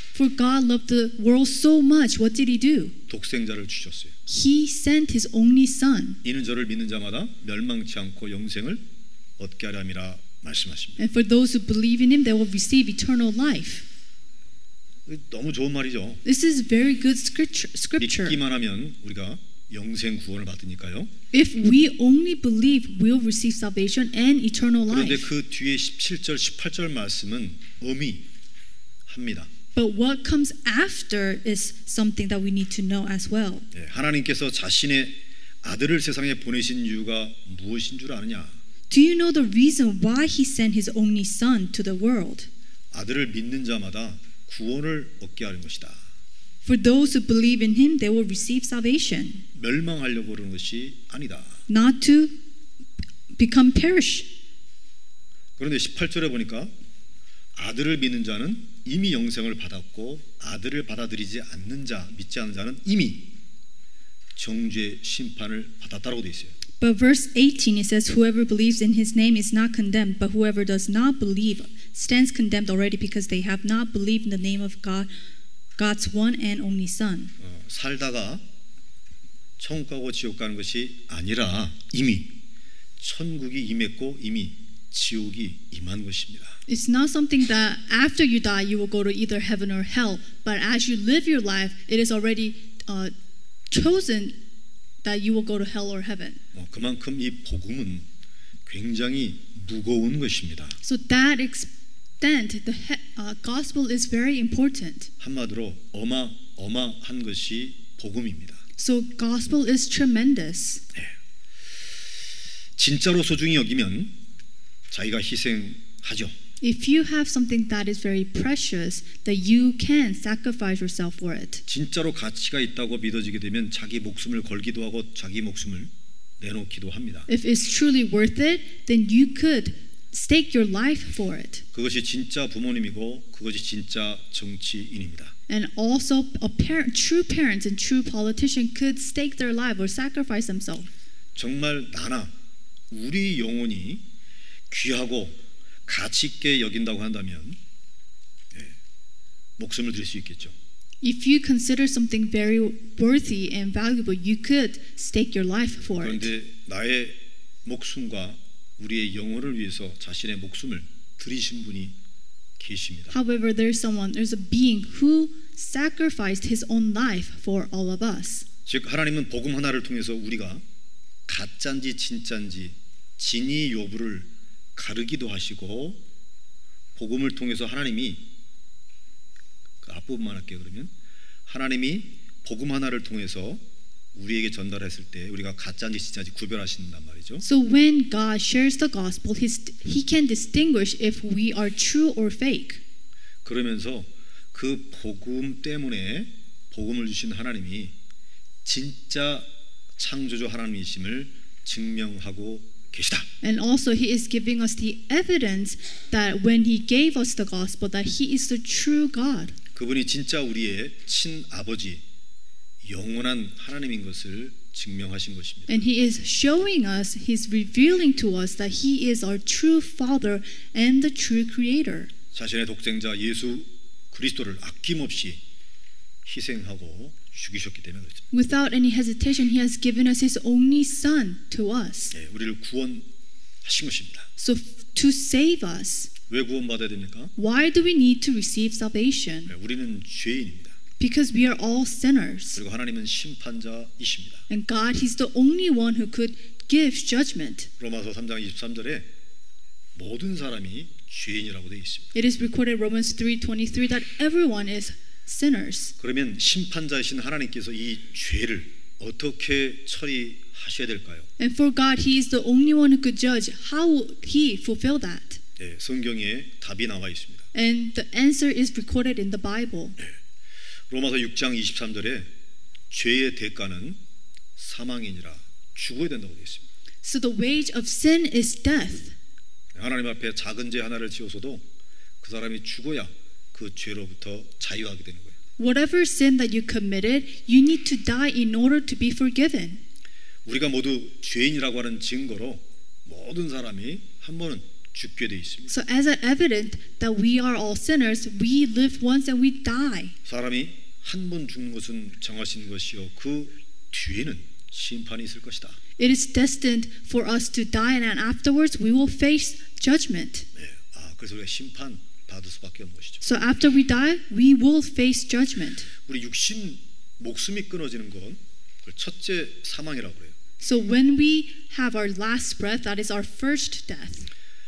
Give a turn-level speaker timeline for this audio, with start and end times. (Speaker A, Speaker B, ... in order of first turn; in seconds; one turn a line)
Speaker A: 0.1-3.0
Speaker B: 3.1-4.1
Speaker A: 4.3-6.2
Speaker B: 6.2-8.8
Speaker B: 9.4-11.0
Speaker A: 11.0-13.8
Speaker B: 15.1-16.2
Speaker A: 16.2-18.4
Speaker B: 18.0-21.1
Speaker A: 21.3-25.3
Speaker B: 24.9-28.3
Speaker B: 29.1-29.5
Speaker A: 29.7-33.7
Speaker B: 33.7-38.6
Speaker A: 38.9-42.5
Speaker B: 42.9-46.0
Speaker A: 46.6-49.4
Speaker B: 49.5-51.6
Speaker A: 51.7-52.4
Speaker A: 53.4-54.3
Speaker B: 55.6-56.7
Speaker B: 57.5-63.3
Speaker B: 64.3-66.5
Speaker A: 66.8-75.1
Speaker A: 75.8-77.3
Speaker B: 77.4-78.4
Speaker B: 79.6-82.4
Speaker B: 83.0-86.6
Speaker A: 86.7-93.1
Speaker A: 93.7-94.3
Speaker A: 95.0-96.4
Speaker B: 96.5-98.1
Speaker B: 98.7-100.8
Speaker A: 100.8-101.7
Speaker A: 102.2-105.1
Speaker B: 105.2-108.6
Speaker A: 108.8-110.8
Speaker B: 112.8-114.2
Speaker B: 114.9-116.3
Speaker A: 116.6-121.6
Speaker B: 121.7-127.3
Speaker A: 127.3-131.6
Speaker B: 131.7-135.3
Speaker A: 135.5-140.9
Speaker B: 141.3-142.3
Speaker B: 142.9-144.1
Speaker B: 144.7-147.6
Speaker B: 149.6-150.5
Speaker A: 151.0-156.3
Speaker B: 155.9-162.0
Speaker B: 162.6-163.1
Speaker A: 163.1-168.4
Speaker B: 168.7-170.6
Speaker B: 171.3-176.0
Speaker B: 176.9-178.3
Speaker B: 179.8-180.9
Speaker B: 181.5-183.6
Speaker B: 184.1-187.4
Speaker A: 187.4-192.8
Speaker B: 193.4-197.9
Speaker B: 198.6-203.3
Speaker A: 203.4-209.6
Speaker B: 209.7-212.0
Speaker B: 212.8-215.8
Speaker A: 215.7-222.1
Speaker B: 222.3-225.4
Speaker B: 226.2-228.2
Speaker A: 228.3-232.1
Speaker B: 232.1-233.1
Speaker B: 233.6-234.3
Speaker A: 234.4-236.1
Speaker B: 236.3-237.3
Speaker A: 237.4-239.5
Speaker B: 239.5-240.8
Speaker A: 241.0-242.6
Speaker B: 242.5-244.4
Speaker A: 244.5-247.7
Speaker B: 247.8-249.1
Speaker B: 249.9-252.1
Speaker A: 252.1-255.9
Speaker B: 256.0-261.3
Speaker A: 261.4-265.4
Speaker B: 265.6-267.4
Speaker A: 267.5-270.0
Speaker B: 270.9-272.3
Speaker B: 272.9-274.0
Speaker B: 274.6-276.7
Speaker A: 277.0-279.1
Speaker B: 279.7-281.6
Speaker B: 282.2-285.3
Speaker A: 285.6-289.8
Speaker B: 290.4-295.7
Speaker A: 295.7-300.1
Speaker B: 300.2-305.8
Speaker A: 306.0-310.4
Speaker B: 310.5-313.2
Speaker A: 313.2-315.9
Speaker B: 316.1-320.4
Speaker A: 320.6-324.3